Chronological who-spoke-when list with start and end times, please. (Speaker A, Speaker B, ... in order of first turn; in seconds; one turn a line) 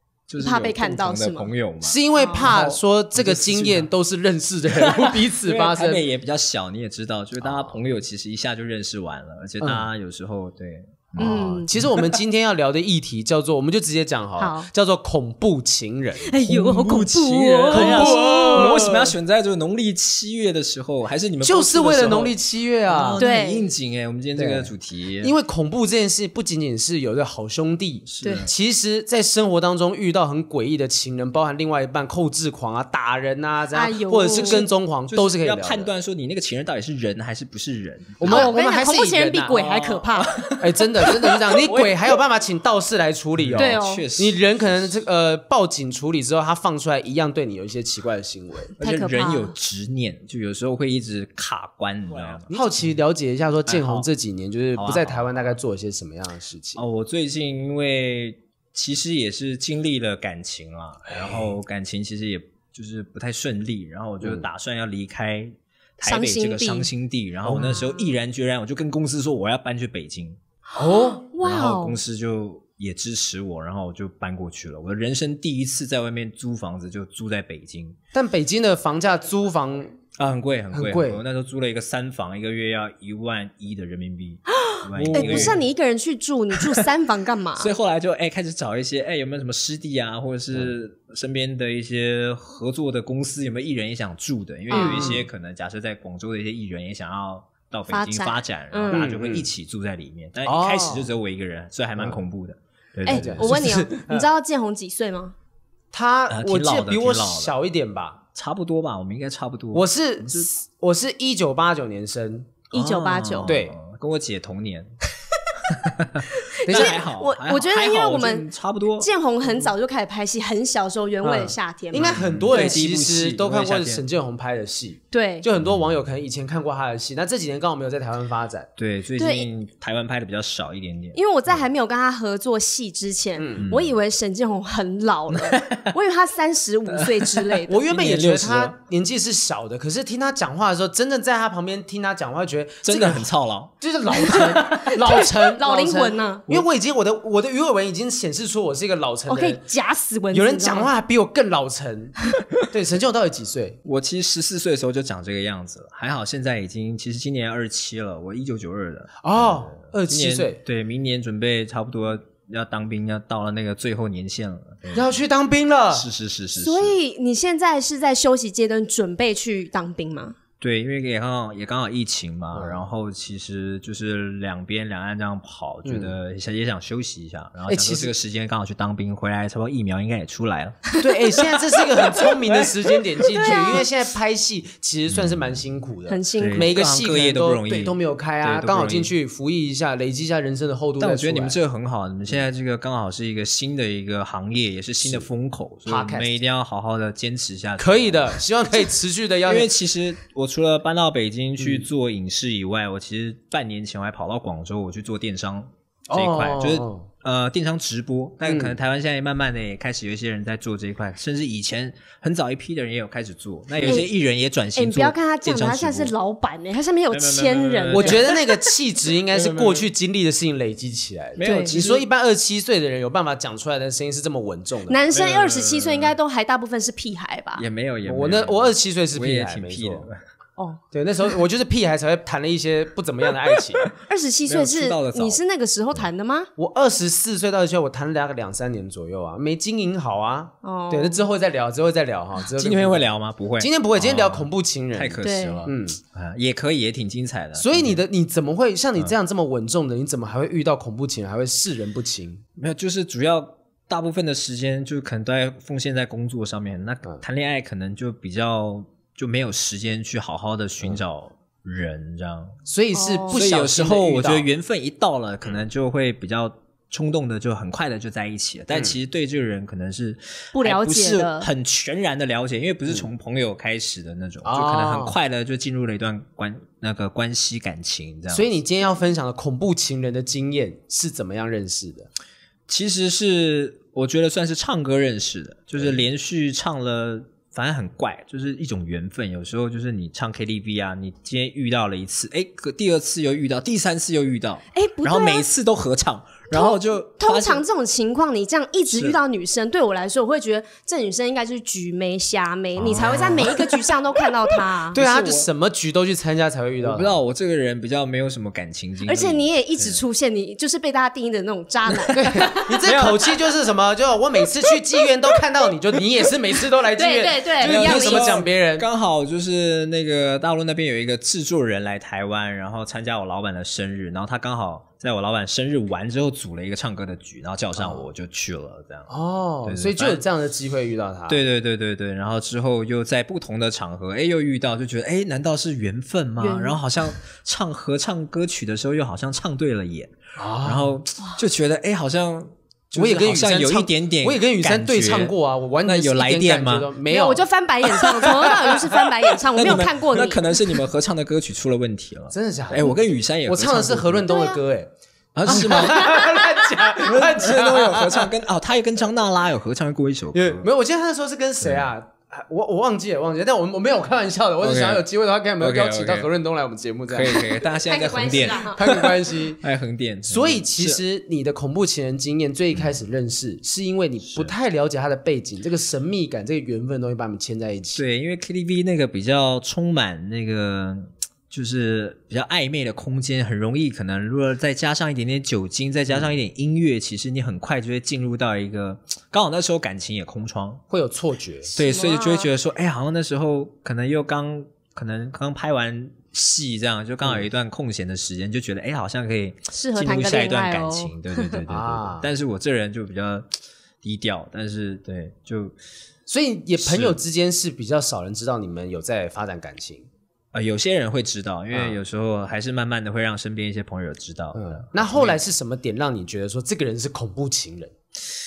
Speaker A: 0.3-3.9
Speaker B: 0.4-1.5
Speaker C: 1.8-6.0
Speaker B: 2.1-2.5
Speaker A: 4.7-11.9
Speaker C: 7.4-7.8
Speaker C: 9.6-9.9
Speaker B: 11.2-11.7
Speaker C: 11.2-16.3
Speaker B: 14.4-14.7
Speaker B: 16.2-18.9
Speaker A: 16.4-22.3
Speaker C: 17.7-19.2
Speaker C: 21.4-23.2
Speaker A: 22.9-25.3
Speaker B: 23.2-23.7
Speaker C: 24.4-35.9
Speaker A: 28.1-28.5
Speaker B: 28.2-28.5
Speaker B: 33.7-34.7
Speaker A: 35.1-38.5
Speaker C: 38.2-39.7
Speaker B: 38.2-40.4
Speaker A: 39.5-42.1
Speaker C: 40.6-48.7
Speaker A: 43.4-45.0
Speaker B: 43.6-44.0
Speaker A: 48.8-52.9
Speaker B: 48.8-49.5
Speaker C: 52.1-56.8
Speaker A: 53.7-54.1
Speaker A: 54.8-55.3
Speaker A: 56.8-70.4
Speaker C: 61.1-61.5
Speaker B: 66.0-66.9
Speaker C: 67.4-67.8
Speaker B: 70.7-72.0
Speaker C: 70.8-71.2
Speaker A: 71.4-78.0
Speaker C: 78.1-79.9
Speaker A: 80.2-85.6
Speaker C: 80.7-81.2
Speaker B: 84.6-87.7
Speaker C: 84.9-85.6
Speaker A: 86.5-86.8
Speaker A: 87.6-103.6
Speaker B: 94.7-95.1
Speaker C: 94.7-95.3
Speaker B: 97.9-99.0
Speaker C: 98.9-99.5
Speaker C: 100.4-101.1
Speaker B: 103.0-105.3
Speaker C: 103.1-104.2
Speaker C: 105.9-108.2
Speaker A: 106.3-107.5
Speaker A: 108.3-110.5
Speaker C: 109.7-112.5
Speaker A: 112.7-114.9
Speaker B: 112.7-113.5
Speaker C: 113.5-113.8
Speaker A: 115.7-119.1
Speaker B: 116.3-122.8
Speaker C: 116.6-117.0
Speaker C: 121.2-128.7
Speaker A: 121.9-124.0
Speaker B: 125.1-125.5
Speaker A: 128.8-131.2
Speaker B: 129.2-129.5
Speaker B: 131.1-137.8
Speaker C: 133.4-133.7
Speaker A: 133.6-134.0
Speaker A: 135.3-135.9
Speaker A: 136.9-138.7
Speaker C: 137.7-143.3
Speaker A: 142.8-143.7
Speaker C: 143.8-149.6
Speaker B: 144.2-146.4
Speaker A: 144.3-144.9
Speaker B: 149.3-150.9
Speaker C: 150.3-152.1
Speaker C: 152.7-153.8
Speaker A: 153.8-165.1
Speaker C: 159.2-160.6
Speaker C: 164.9-166.1
Speaker A: 165.9-167.0
Speaker B: 166.5-170.3
Speaker A: 170.6-180.8
Speaker C: 172.5-172.8
Speaker C: 175.8-176.1
Speaker C: 177.7-178.1
Speaker C: 181.0-191.6
Speaker B: 183.3-183.8
Speaker A: 185.1-185.4
Speaker B: 186.1-186.7
Speaker A: 186.4-189.1
Speaker A: 191.0-198.4
Speaker C: 195.0-195.3
Speaker C: 195.8-196.4
Speaker C: 197.8-199.7
Speaker A: 199.4-216.1
Speaker C: 201.6-201.8
Speaker C: 206.1-207.0
Speaker C: 208.4-208.8
Speaker B: 213.8-214.1
Speaker B: 214.8-218.6
Speaker A: 217.1-218.4
Speaker C: 217.9-225.0
Speaker A: 219.3-219.9
Speaker A: 221.4-222.0
Speaker B: 221.4-221.8
Speaker B: 224.9-227.7
Speaker A: 225.1-226.1
Speaker A: 227.6-230.2
Speaker C: 228.0-230.1
Speaker C: 230.9-233.8
Speaker B: 234.1-236.5
Speaker A: 234.5-235.4
Speaker C: 236.6-243.1
Speaker B: 240.6-241.2
Speaker A: 242.6-248.0
Speaker C: 243.6-246.0
Speaker B: 245.2-245.7
Speaker C: 247.6-252.4
Speaker A: 252.6-262.6
Speaker C: 262.6-264.5
Speaker B: 262.9-263.4
Speaker A: 263.3-278.5
Speaker B: 270.5-271.5
Speaker C: 274.4-275.2
Speaker C: 278.3-282.1
Speaker A: 282.7-297.6
Speaker B: 294.7-295.4
Speaker B: 296.5-305.0
Speaker A: 298.9-299.2
Speaker A: 302.8-303.7
Speaker C: 302.9-303.6
Speaker A: 304.9-305.5
Speaker C: 304.9-307.2
Speaker A: 306.8-310.0
Speaker B: 309.0-312.8
Speaker A: 312.0-313.3
Speaker C: 312.1-318.9
Speaker B: 316.9-318.4
Speaker A: 317.6-329.1
Speaker C: 327.8-328.1
Speaker C: 329.1-331.4
Speaker A: 329.6-330.2
Speaker A: 331.3-346.9
Speaker B: 336.4-336.8
Speaker C: 340.4-341.0
Speaker C: 342.9-347.4
Speaker B: 347.1-350.4
Speaker C: 348.1-348.8
Speaker A: 348.2-348.7
Speaker A: 349.5-354.3
Speaker C: 352.3-354.9
Speaker B: 354.2-354.6
Speaker A: 355.3-356.4
Speaker C: 355.4-358.3
Speaker B: 355.8-356.4
Speaker A: 356.9-360.7
Speaker C: 360.3-367.6
Speaker A: 361.6-361.9
Speaker A: 364.6-365.0
Speaker A: 365.6-366.3
Speaker A: 367.1-371.0
Speaker B: 367.8-368.8
Speaker C: 368.6-369.6
Speaker C: 370.3-378.0
Speaker A: 377.9-390.8
Speaker C: 390.9-391.7
Speaker B: 391.7-392.5
Speaker A: 391.8-403.5
Speaker B: 399.7-401.5
Speaker C: 401.7-402.3
Speaker A: 404.0-405.7
Speaker C: 406.3-410.1
Speaker A: 406.8-407.1
Speaker A: 410.5-415.4
Speaker C: 411.7-412.0
Speaker C: 414.5-417.9